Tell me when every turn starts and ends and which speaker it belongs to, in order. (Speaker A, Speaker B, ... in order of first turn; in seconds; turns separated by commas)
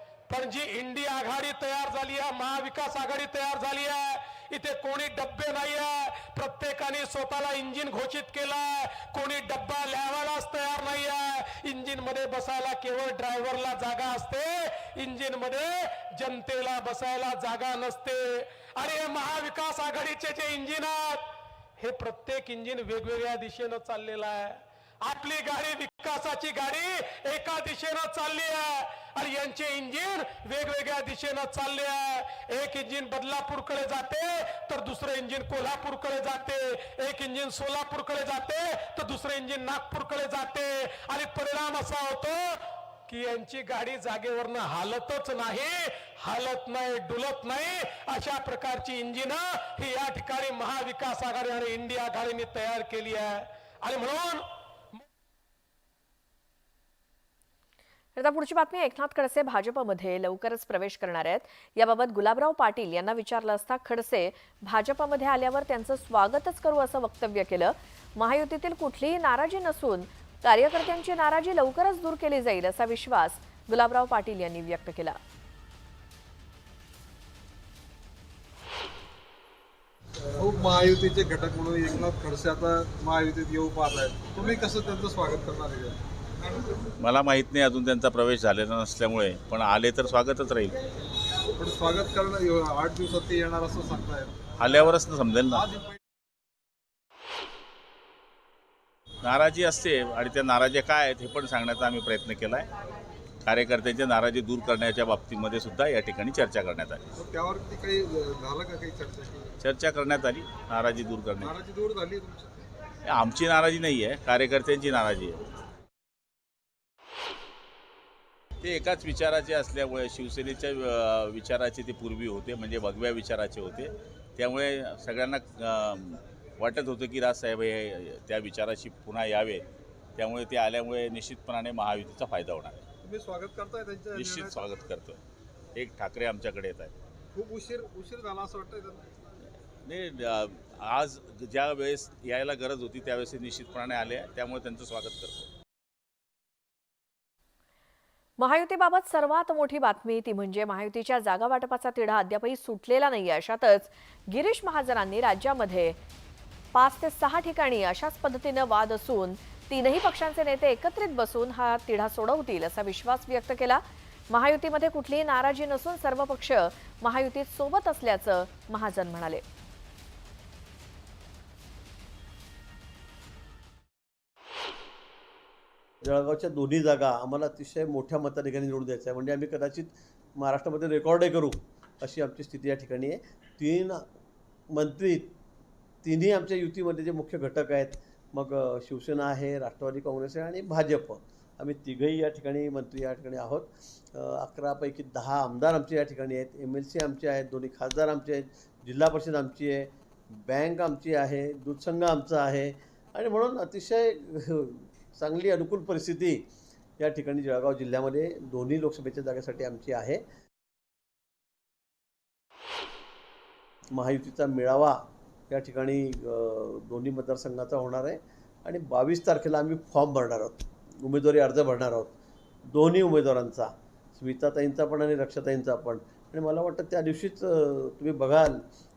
Speaker A: 0.3-21.3, Speaker A: 21.8-54.5, Speaker B: 58.2-75.2, Speaker C: 80.4-86.0, Speaker D: 87.0-90.8, Speaker C: 91.6-94.9, Speaker D: 94.6-95.7, Speaker C: 95.5-96.0, Speaker D: 99.2-102.7, Speaker D: 103.5-107.2, Speaker C: 107.2-109.6, Speaker D: 109.6-111.6, Speaker C: 111.4-112.6, Speaker D: 113.1-115.4, Speaker D: 118.6-129.7, Speaker D: 130.2-132.8, Speaker C: 133.0-134.6, Speaker D: 134.1-135.2, Speaker D: 135.8-136.9, Speaker C: 137.3-139.1, Speaker D: 139.8-145.5, Speaker B: 148.4-156.0, Speaker B: 156.7-169.4, Speaker E: 176.0-184.1, Speaker E: 184.7-185.3, Speaker E: 186.0-206.5, Speaker E: 207.0-210.2, Speaker E: 213.9-222.1, Speaker E: 222.7-228.6